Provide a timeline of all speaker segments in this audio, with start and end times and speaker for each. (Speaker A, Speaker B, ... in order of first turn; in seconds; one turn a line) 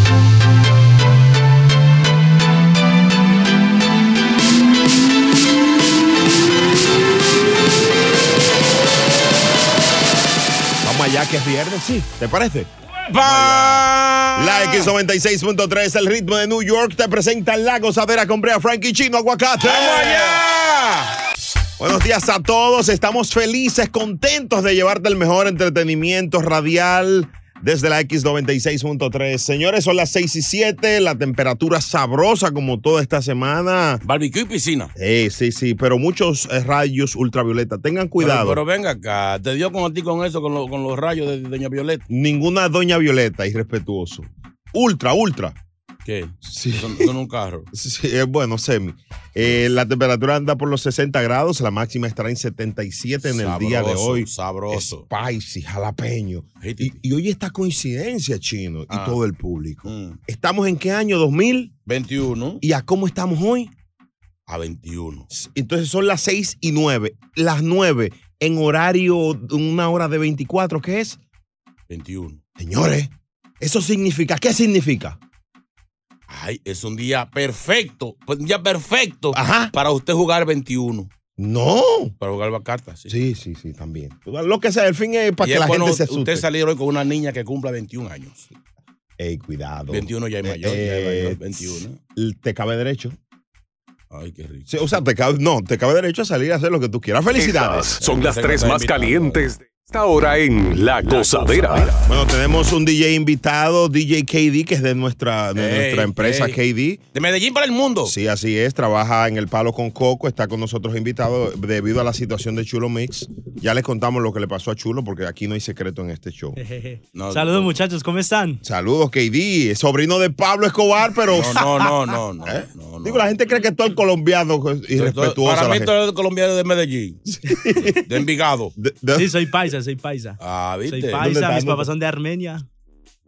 Speaker A: 10.8-21.1
Speaker B: 13.0-14.9
Speaker B: 19.6-20.5
Speaker A: 21.8-34.0
Speaker B: 34.0-34.9
Speaker A: 35.0-38.6
Speaker B: 38.2-42.0
Speaker A: 42.1-45.5
Speaker B: 46.0-47.7
Speaker A: 46.4-47.1
Speaker A: 47.7-61.7
Speaker B: 53.2-55.0
Speaker B: 56.6-57.0
Speaker B: 58.9-59.2
Speaker B: 59.8-60.2
Speaker B: 61.9-62.6
Speaker A: 62.6-63.7
Speaker B: 64.5-65.3
Speaker A: 65.3-71.2
Speaker B: 71.9-72.4
Speaker A: 72.6-75.2
Speaker B: 76.3-81.1
Speaker A: 79.3-79.7
Speaker A: 81.4-82.1
Speaker B: 82.2-83.1
Speaker A: 83.1-86.4
Speaker B: 85.4-88.5
Speaker A: 89.2-93.2
Speaker B: 89.9-92.0
Speaker B: 94.1-94.7
Speaker A: 94.7-98.0
Speaker C: 97.3-102.0
Speaker B: 98.0-99.4
Speaker B: 101.0-101.9
Speaker A: 102.1-107.0
Speaker B: 105.5-106.6
Speaker B: 107.1-108.1
Speaker A: 108.0-116.6
Speaker D: 116.6-118.6
Speaker B: 117.1-117.8
Speaker A: 118.6-121.7
Speaker B: 121.3-123.3
Speaker A: 122.5-125.9
Speaker B: 124.9-127.2
Speaker A: 127.3-128.0
Speaker B: 127.8-128.7
Speaker A: 128.8-129.4
Speaker D: 129.1-132.6
Speaker B: 130.4-131.2
Speaker A: 131.2-131.9